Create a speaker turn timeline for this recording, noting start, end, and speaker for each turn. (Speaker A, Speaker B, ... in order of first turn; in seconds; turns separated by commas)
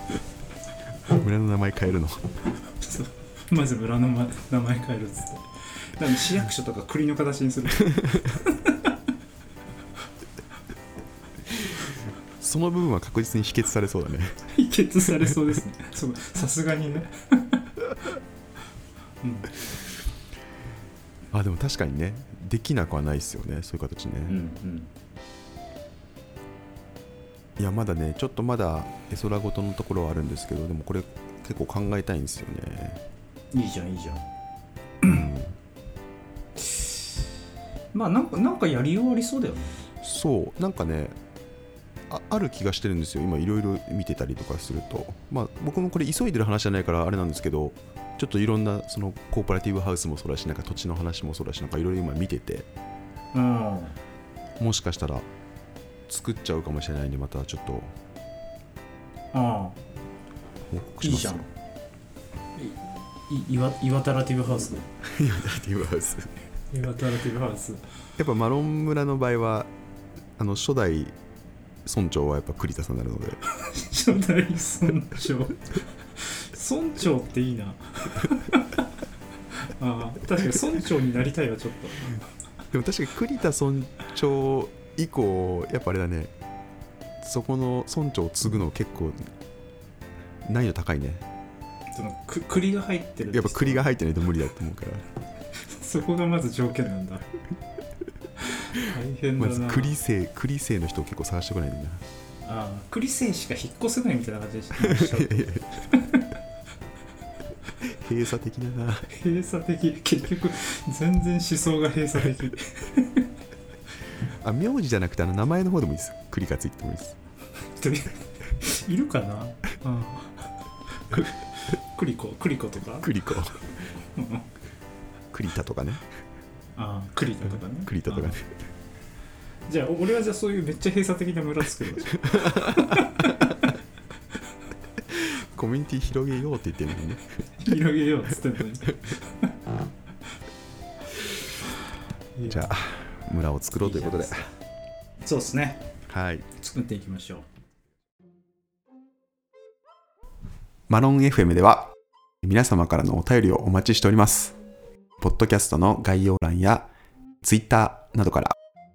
Speaker A: 1.0-2.3, Speaker B: 2.7-8.9, Speaker A: 12.4-14.4, Speaker B: 14.5-17.6, Speaker B: 19.2-19.5, Speaker A: 21.3-24.4, Speaker B: 24.2-24.9, Speaker A: 27.6-33.0, Speaker B: 33.5-34.2, Speaker B: 35.0-35.3, Speaker A: 35.0-35.6, Speaker B: 37.9-39.8, Speaker A: 40.0-41.2, Speaker A: 42.1-52.7, Speaker B: 53.3-54.0, Speaker A: 54.6-55.3, Speaker A: 56.1-57.9, Speaker B: 59.3-59.8, Speaker A: 60.7-61.5, Speaker B: 61.0-61.5, Speaker B: 62.5-64.8, Speaker A: 65.0-66.3, Speaker B: 66.7-67.8, Speaker A: 68.2-69.7, Speaker A: 70.4-71.2, Speaker A: 71.8-73.4, Speaker B: 73.4-78.8, Speaker B: 79.5-82.2, Speaker A: 82.7-86.3, Speaker A: 87.2-89.3, Speaker A: 90.4-91.2, Speaker B: 91.9-93.9, Speaker A: 93.3-95.1, Speaker B: 95.6-97.2, Speaker B: 98.4-99.9, Speaker A: 99.4-102.0, Speaker B: 102.4-106.3, Speaker A: 104.7-105.7, Speaker A: 107.8-109.1, Speaker B: 109.1-113.2, Speaker A: 114.4-117.2, Speaker B: 117.8-120.5, Speaker B: 121.1-123.1, Speaker A: 123.0-123.6, Speaker B: 124.1-124.5, Speaker A: 125.3-126.0, Speaker B: 126.8-128.4, Speaker A: 127.8-128.5, Speaker B: 129.7-133.3, Speaker A: 132.2-133.0, Speaker A: 135.1-137.2, Speaker B: 137.6-139.5, Speaker B: 142.3-142.7, Speaker A: 142.5-144.4, Speaker B: 143.8-144.5, Speaker B: 145.2-145.9, Speaker A: 146.1-146.4, Speaker B: 146.6-147.5, Speaker A: 150.9-154.6, Speaker A: 155.2-156.9, Speaker A: 157.4-158.6